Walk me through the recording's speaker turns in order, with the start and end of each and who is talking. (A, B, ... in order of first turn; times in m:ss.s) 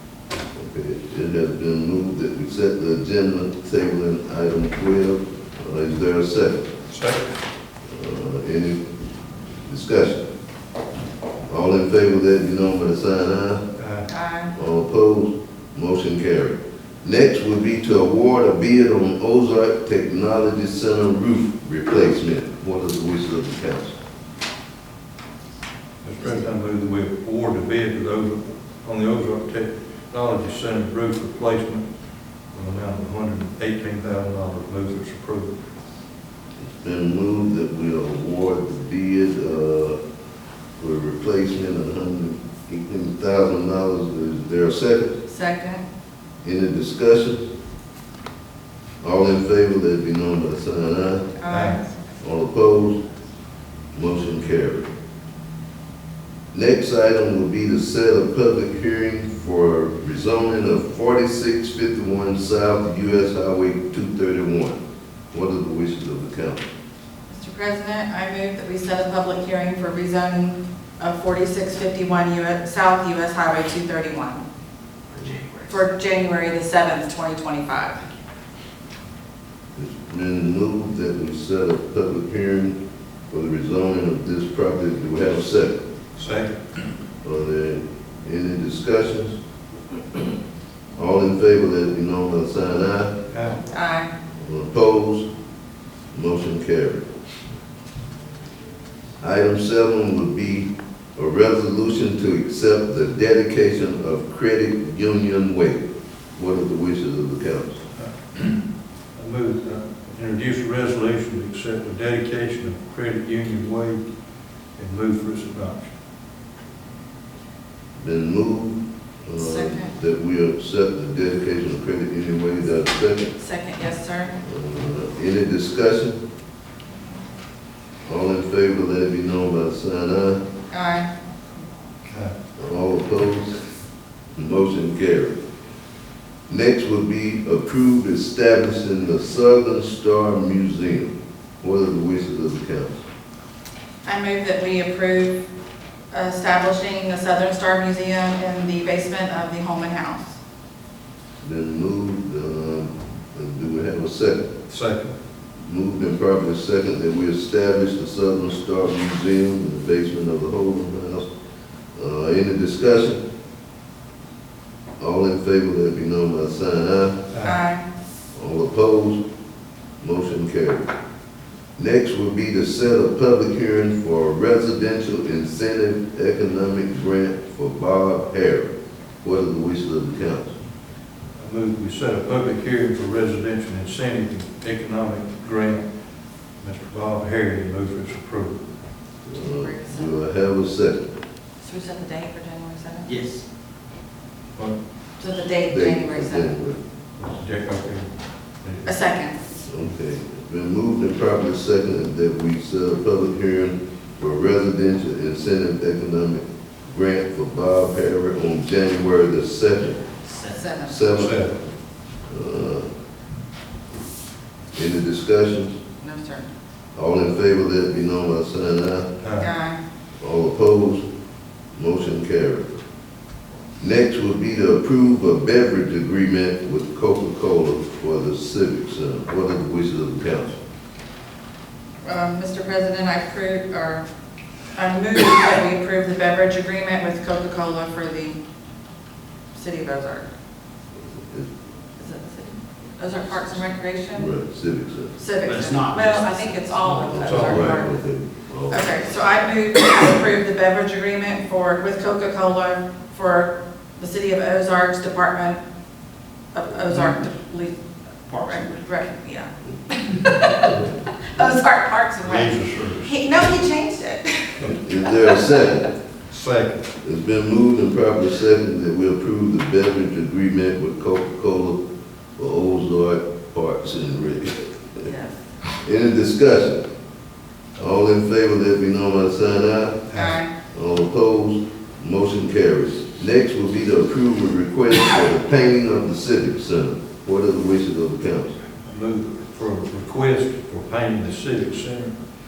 0:00.6-0:06.6 A
0:06.9-0:07.3 B
0:07.9-0:08.8 A
0:09.7-0:10.2 A
0:11.5-0:13.6 A
0:13.8-0:14.1 B
0:14.1-0:14.5 C
0:14.5-0:24.0 A
0:26.0-0:31.9 B
0:32.5-0:35.5 B
0:36.8-0:40.0 A
0:40.8-0:45.2 A
0:45.3-0:45.8 C
0:46.4-0:47.4 A
0:49.0-0:51.4 A
0:51.4-0:51.9 C
0:51.5-0:51.8 B
0:52.2-0:53.0 A
0:53.9-0:54.9 A
0:56.5-1:04.8 A
1:05.3-1:06.6 A
1:07.3-1:14.4 C
1:15.2-1:15.7 D
1:15.7-1:18.0 C
1:19.8-1:22.8 A
1:23.3-1:25.8 A
1:26.2-1:26.6 B
1:27.2-1:29.4 A
1:31.0-1:33.1 A
1:33.3-1:33.6 B
1:33.6-1:34.1 C
1:34.4-1:35.3 A
1:36.1-1:37.1 A
1:39.2-1:45.8 A
1:46.4-1:47.8 A
1:48.0-1:48.6 B
1:49.2-1:54.0 B
1:54.8-1:55.9 B
1:58.0-2:03.3 A
1:59.4-1:59.9 C
2:03.4-2:04.4 C
2:04.4-2:06.2 A
2:08.1-2:10.4 A
2:10.7-2:11.1 C
2:12.1-2:12.3 B
2:12.6-2:13.7 A
2:14.4-2:15.3 A
2:16.5-2:23.0 A
2:24.0-2:25.4 C
2:26.1-2:30.4 C
2:31.4-2:34.5 A
2:34.7-2:35.1 B
2:35.6-2:41.3 A
2:42.0-2:43.2 A
2:45.0-2:47.2 A
2:47.3-2:47.6 B
2:47.4-2:47.8 C
2:48.4-2:49.2 A
2:50.0-2:50.9 A
2:51.8-2:58.7 A
2:59.2-3:00.5 A
3:01.4-3:05.8 B
3:06.6-3:08.6 B
3:09.2-3:11.1 A
3:09.4-3:10.2 C
3:11.6-3:13.2 C
3:13.1-3:13.4 D
3:15.2-3:16.5 C
3:15.7-3:16.8 A
3:17.2-3:18.1 B
3:18.6-3:18.9 B
3:18.8-3:19.4 C
3:19.7-3:30.0 A
3:30.3-3:31.0 C
3:30.9-3:31.4 A
3:31.2-3:31.5 B
3:32.3-3:32.9 A
3:34.7-3:35.8 A
3:36.0-3:36.5 C
3:36.9-3:39.1 A
3:39.2-3:39.5 B
3:39.4-3:39.8 C
3:40.2-3:41.0 A
3:41.8-3:42.7 A
3:43.8-3:50.6 A
3:52.0-3:54.1 C
3:54.7-3:58.4 C
3:59.5-4:00.3 C
4:02.0-4:04.3 C
4:04.2-4:05.2 A
4:05.2-4:07.9 C
4:05.4-4:07.2 D
4:07.1-4:08.9 A
4:07.2-4:07.7 B
4:08.7-4:15.6 C
4:16.5-4:17.8 C
4:18.3-4:25.5 C
4:22.2-4:23.1 B
4:24.7-4:25.9 A
4:26.3-4:26.8 B
4:27.0-4:31.8 A
4:32.4-4:34.7 A
4:35.0-4:35.4 C
4:35.8-4:36.8 A
4:37.8-4:40.1 A
4:40.1-4:40.4 B
4:40.1-4:40.5 C
4:40.7-4:48.6 A
4:48.8-4:52.2 B